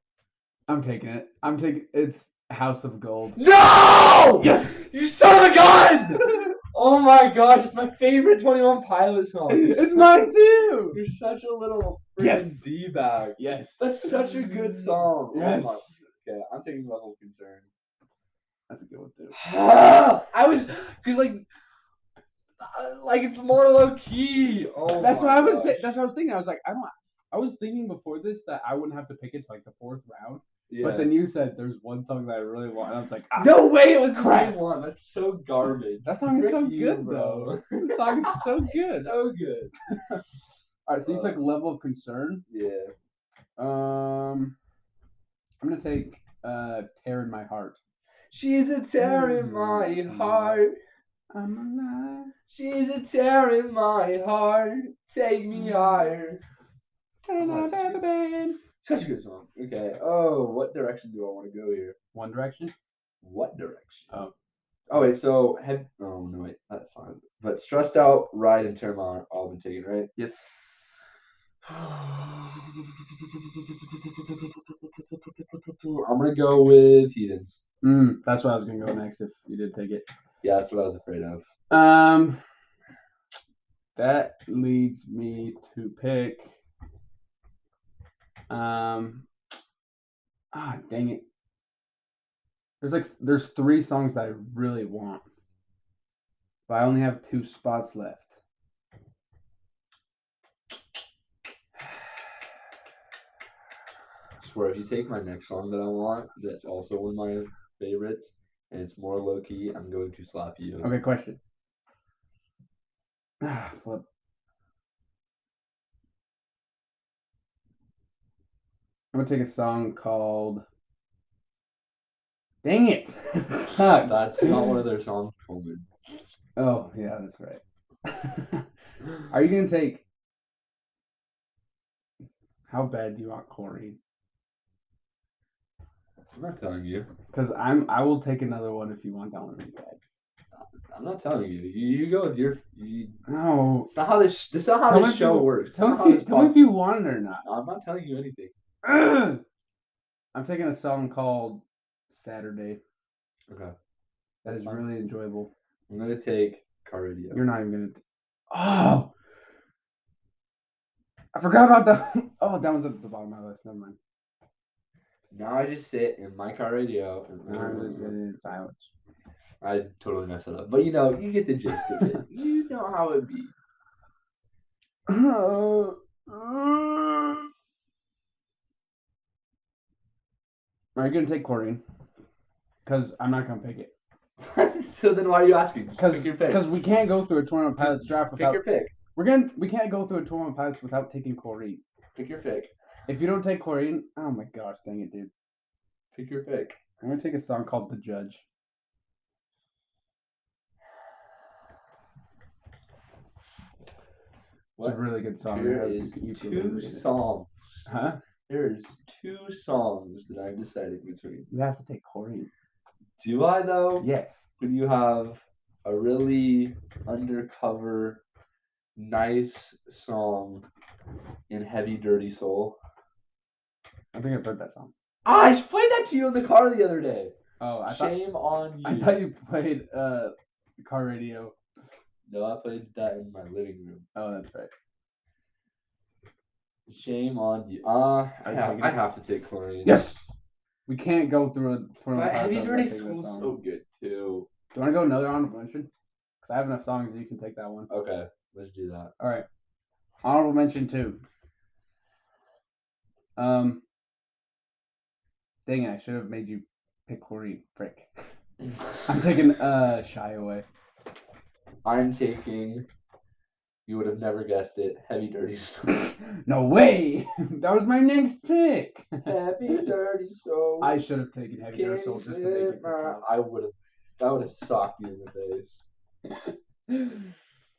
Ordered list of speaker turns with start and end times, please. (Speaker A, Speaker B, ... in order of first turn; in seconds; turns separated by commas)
Speaker A: 0.7-3.4, Speaker B: 3.4-10.3, Speaker A: 4.4-4.8, Speaker A: 9.5-11.0, Speaker B: 10.9-17.7, Speaker A: 12.2-12.7, Speaker A: 13.4-14.3, Speaker A: 15.3-16.0, Speaker A: 18.7-19.4, Speaker B: 19.3-21.5, Speaker B: 22.6-25.9, Speaker A: 24.9-34.6, Speaker B: 30.7-31.1, Speaker B: 33.4-39.7, Speaker A: 36.0-39.1, Speaker A: 40.9-42.4, Speaker B: 41.0-41.4, Speaker B: 42.5-42.9, Speaker A: 43.6-44.6, Speaker A: 45.6-47.8, Speaker B: 48.3-50.8, Speaker A: 49.0-50.6, Speaker A: 51.3-52.3, Speaker B: 52.5-56.4, Speaker A: 55.5-56.0, Speaker A: 57.3-58.6, Speaker B: 57.4-58.0, Speaker B: 58.8-62.0, Speaker A: 62.1-62.7, Speaker B: 63.2-64.1, Speaker B: 64.9-70.1, Speaker A: 70.2-71.0, Speaker B: 71.7-77.6, Speaker A: 77.8-80.1, Speaker B: 80.4-81.5, Speaker A: 81.7-82.4, Speaker A: 84.0-86.6, Speaker A: 88.5-89.3, Speaker A: 90.5-91.2, Speaker A: 92.8-95.2, Speaker A: 96.7-98.3, Speaker B: 104.4-110.9, Speaker A: 110.8-111.4, Speaker A: 113.4-114.0, Speaker A: 119.1-120.6, Speaker A: 122.6-124.8, Speaker B: 124.0-125.9, Speaker A: 126.6-128.6, Speaker A: 129.3-130.0, Speaker A: 132.7-134.0, Speaker B: 136.3-137.1, Speaker A: 137.3-140.0, Speaker B: 140.6-143.2, Speaker A: 143.3-143.9, Speaker B: 143.9-146.6, Speaker A: 144.9-147.4, Speaker B: 147.4-148.5, Speaker A: 148.8-149.4, Speaker A: 150.3-152.8, Speaker B: 153.5-153.7, Speaker B: 154.4-154.8, Speaker A: 154.4-155.5, Speaker B: 155.9-157.4, Speaker A: 157.3-158.0, Speaker A: 158.5-159.1, Speaker A: 161.3-164.0, Speaker B: 165.3-168.1, Speaker A: 167.5-168.9, Speaker B: 169.6-173.5, Speaker A: 175.1-177.5, Speaker A: 181.0-181.8, Speaker A: 182.9-183.9, Speaker B: 184.4-186.7, Speaker A: 186.0-188.6, Speaker B: 187.8-188.9, Speaker A: 189.2-191.8, Speaker B: 192.2-192.7, Speaker A: 193.1-195.3, Speaker B: 196.2-196.8, Speaker A: 197.0-198.4, Speaker B: 204.8-207.5, Speaker A: 204.8-207.1, Speaker A: 207.9-208.2, Speaker B: 208.5-211.5, Speaker A: 211.5-212.5, Speaker B: 213.2-214.1, Speaker A: 214.0-214.5, Speaker B: 214.6-218.2, Speaker B: 219.0-220.7, Speaker B: 221.5-222.8, Speaker A: 224.1-224.9, Speaker B: 225.2-227.3, Speaker A: 227.6-228.2, Speaker B: 227.9-229.2, Speaker A: 228.8-231.6, Speaker B: 232.3-234.1, Speaker A: 234.2-234.7, Speaker B: 236.9-240.0, Speaker A: 238.4-239.1, Speaker A: 239.8-240.2, Speaker A: 240.9-243.5, Speaker B: 242.1-244.5, Speaker A: 244.7-245.9, Speaker A: 246.4-247.9, Speaker B: 247.9-249.1, Speaker A: 249.2-249.5, Speaker A: 250.2-251.2, Speaker A: 253.4-253.8, Speaker A: 255.7-258.1, Speaker A: 259.1-260.6, Speaker B: 261.9-262.9, Speaker B: 263.9-266.2, Speaker A: 266.4-269.9, Speaker B: 269.2-271.0, Speaker A: 270.8-273.3, Speaker B: 271.7-275.8, Speaker A: 276.3-277.3